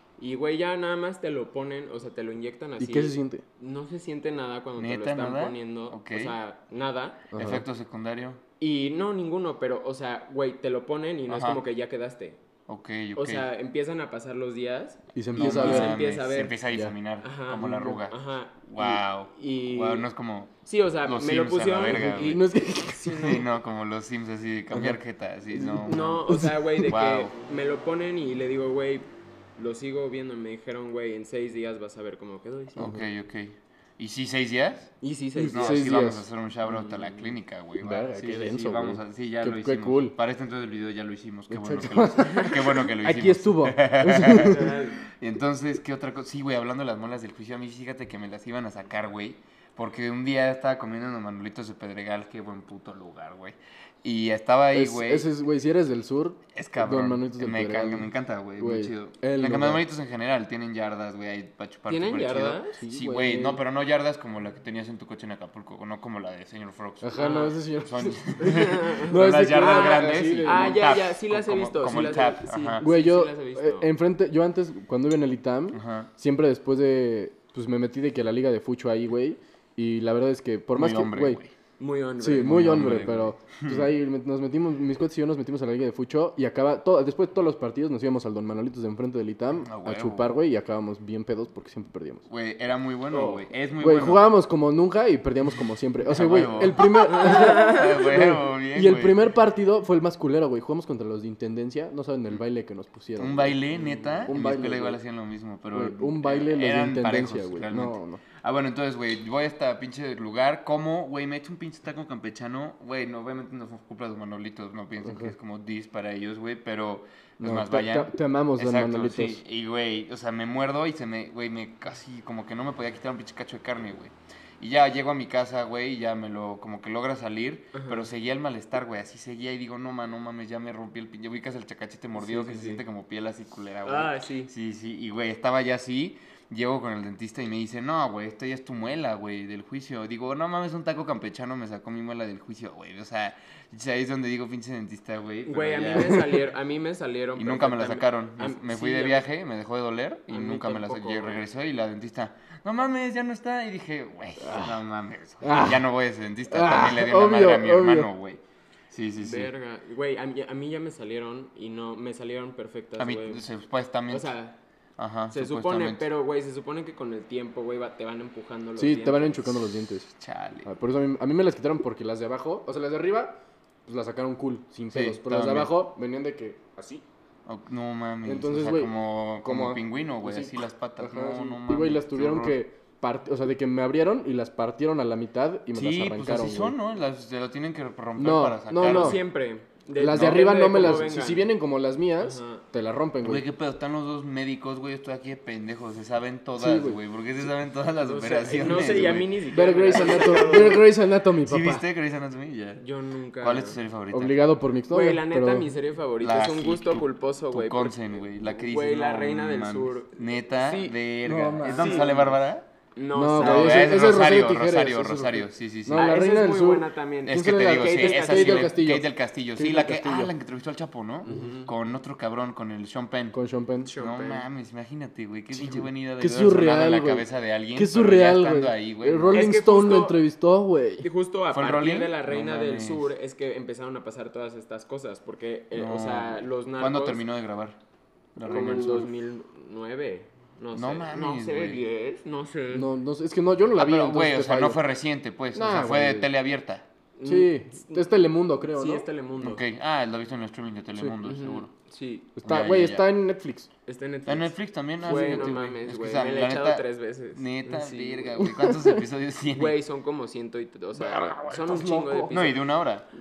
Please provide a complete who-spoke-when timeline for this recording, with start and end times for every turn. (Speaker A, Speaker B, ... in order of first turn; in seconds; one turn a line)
Speaker A: 0.2-7.3
Speaker B: 2.8-3.4
Speaker C: 4.8-6.3
Speaker B: 7.3-7.6
Speaker C: 7.3-8.4
Speaker A: 8.6-12.4
Speaker C: 11.3-11.6
Speaker C: 12.7-13.5
Speaker A: 13.1-16.6
Speaker B: 15.1-16.0
Speaker C: 15.3-22.4
Speaker A: 17.2-20.1
Speaker B: 17.7-17.9
Speaker A: 20.6-23.4
Speaker B: 21.9-23.4
Speaker C: 23.1-27.3
Speaker B: 24.7-25.0
Speaker B: 25.5-26.5
Speaker A: 25.8-32.9
Speaker C: 32.8-35.0
Speaker A: 35.0-35.9
Speaker B: 35.4-36.2
Speaker C: 35.5-55.3
Speaker A: 36.6-37.4
Speaker B: 37.8-40.1
Speaker B: 41.5-44.8
Speaker A: 44.3-45.0
Speaker B: 54.7-59.8
Speaker C: 56.5-67.2
Speaker A: 61.9-62.8
Speaker B: 62.8-63.6
Speaker B: 67.0-70.8
Speaker A: 67.2-67.6
Speaker C: 67.8-72.8
Speaker A: 68.4-73.9
Speaker B: 72.8-81.4
Speaker C: 75.7-76.1
Speaker C: 80.7-81.5
Speaker A: 81.8-82.8
Speaker B: 82.2-92.2
Speaker C: 82.4-83.9
Speaker C: 89.6-90.3
Speaker C: 92.3-94.3
Speaker A: 93.1-93.5
Speaker B: 93.8-103.6
Speaker C: 96.0-99.3
Speaker A: 97.1-97.8
Speaker C: 103.1-146.2
Speaker A: 103.7-104.3
Speaker B: 104.2-105.0
Speaker B: 105.7-108.2
Speaker B: 115.0-115.3
Speaker B: 117.4-119.4
Speaker A: 127.7-128.1
Speaker A: 132.2-132.8
Speaker A: 133.8-134.5
Speaker A: 145.4-149.3
Speaker C: 147.3-159.5
Speaker A: 150.3-151.4
Speaker B: 154.4-154.8
Speaker B: 155.4-155.9
Speaker B: 156.5-158.1
Speaker A: 159.2-163.4
Speaker C: 163.0-164.3
Speaker A: 164.1-164.6
Speaker C: 165.0-166.0
Speaker A: 165.3-169.5
Speaker B: 168.8-170.1
Speaker C: 169.7-170.7
Speaker B: 170.6-177.0
Speaker C: 174.9-175.8
Speaker C: 177.4-182.6
Speaker B: 178.2-186.7
Speaker C: 185.7-189.2
Speaker B: 188.2-189.2
Speaker A: 188.8-191.5
Speaker B: 190.0-193.4
Speaker C: 190.1-190.9
Speaker A: 192.2-192.7
Speaker C: 193.2-199.4
Speaker B: 196.6-197.0
Speaker A: 198.0-200.8
Speaker B: 199.5-201.8
Speaker C: 200.1-200.6
Speaker C: 201.4-202.8
Speaker A: 202.8-203.8
Speaker C: 203.4-204.4
Speaker B: 204.1-205.7
Speaker A: 204.9-210.9
Speaker C: 206.2-212.7
Speaker B: 211.2-212.2
Speaker A: 211.6-212.3
Speaker A: 212.9-214.1
Speaker B: 213.1-220.3
Speaker C: 213.4-216.1
Speaker A: 215.9-218.7
Speaker C: 217.2-223.4
Speaker A: 221.2-221.7
Speaker B: 223.3-223.9
Speaker A: 223.8-224.5
Speaker C: 224.0-229.5
Speaker B: 225.5-231.1
Speaker A: 229.3-230.2
Speaker A: 231.0-237.2
Speaker C: 231.5-233.1
Speaker C: 235.7-237.8
Speaker C: 238.3-239.1
Speaker B: 238.4-239.1
Speaker A: 238.4-242.9
Speaker C: 240.7-241.8
Speaker B: 242.7-244.8
Speaker C: 243.7-246.8
Speaker B: 245.5-246.3
Speaker A: 247.2-248.1
Speaker B: 247.2-249.1
Speaker A: 248.7-249.6
Speaker C: 249.4-251.7
Speaker A: 251.2-252.3
Speaker B: 252.4-253.7
Speaker C: 252.4-253.0
Speaker A: 253.8-258.5
Speaker C: 254.2-259.8
Speaker B: 255.1-255.5
Speaker B: 258.4-259.0
Speaker A: 259.5-262.6
Speaker C: 261.0-261.8
Speaker B: 261.2-262.4
Speaker C: 262.3-263.1